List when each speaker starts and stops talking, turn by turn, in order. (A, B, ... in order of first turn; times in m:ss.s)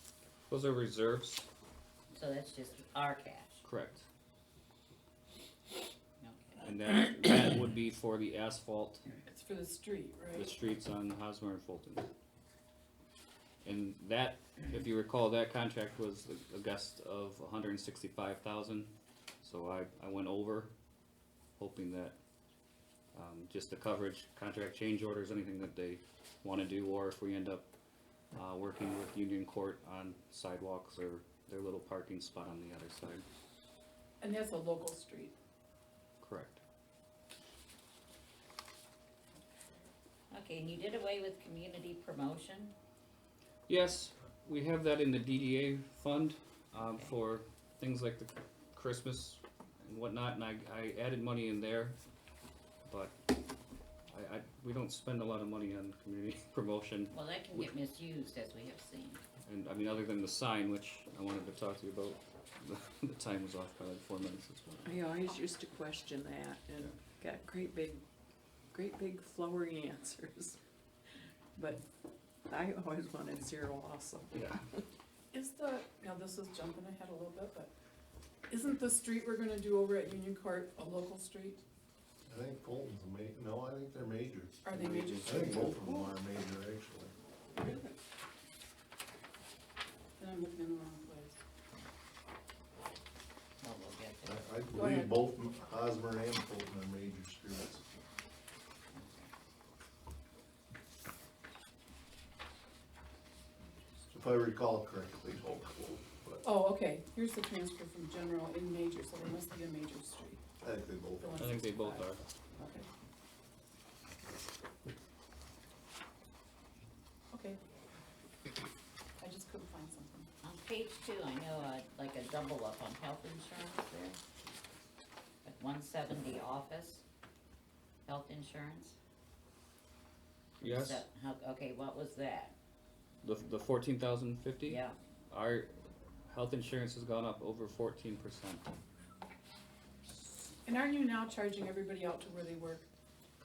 0:00.5-0:01.5 A
0:02.1-0:03.6 B
0:03.6-0:04.1 A
0:06.2-0:06.8 B
0:06.6-0:09.1 A
0:09.2-0:10.5 C
0:10.4-0:12.1 A
0:13.6-0:20.7 A
0:21.6-0:22.2 A
0:23.1-0:27.7 A
0:28.3-0:33.2 A
0:34.2-0:35.4 C
0:36.2-0:36.6 A
0:40.3-0:42.8 B
0:43.7-0:52.0 A
0:46.8-0:47.1 B
0:52.9-0:53.1 A
0:54.1-0:57.7 A
0:57.1-0:59.2 B
0:59.5-1:05.0 A
1:04.8-1:08.0 D
1:08.7-1:10.6 D
1:11.6-1:11.8 D
1:12.5-1:14.4 D
1:14.3-1:14.6 A
1:15.3-1:17.7 C
1:18.5-1:21.6 C
1:22.3-1:24.6 E
1:24.6-1:25.5 C
1:24.7-1:25.7 A
1:25.2-1:27.1 E
1:25.7-1:26.1 D
1:27.5-1:27.9 D
1:30.2-1:31.4 C
1:33.6-1:34.5 B
1:34.2-1:37.8 E
1:34.7-1:35.2 C
1:38.9-1:39.3 B
1:44.1-1:46.4 E
1:46.4-1:50.4 C
1:50.6-1:51.3 E
1:51.2-1:52.9 C
1:51.4-1:52.2 A
1:57.3-1:57.6 C
1:59.2-2:00.3 C
2:00.4-2:04.2 B
2:05.4-2:07.0 B
2:08.1-2:09.0 B
2:10.6-2:11.0 A
2:10.6-2:12.6 B
2:13.2-2:15.7 A
2:14.6-2:15.0 B
2:16.3-2:18.6 A
2:20.1-2:22.9 C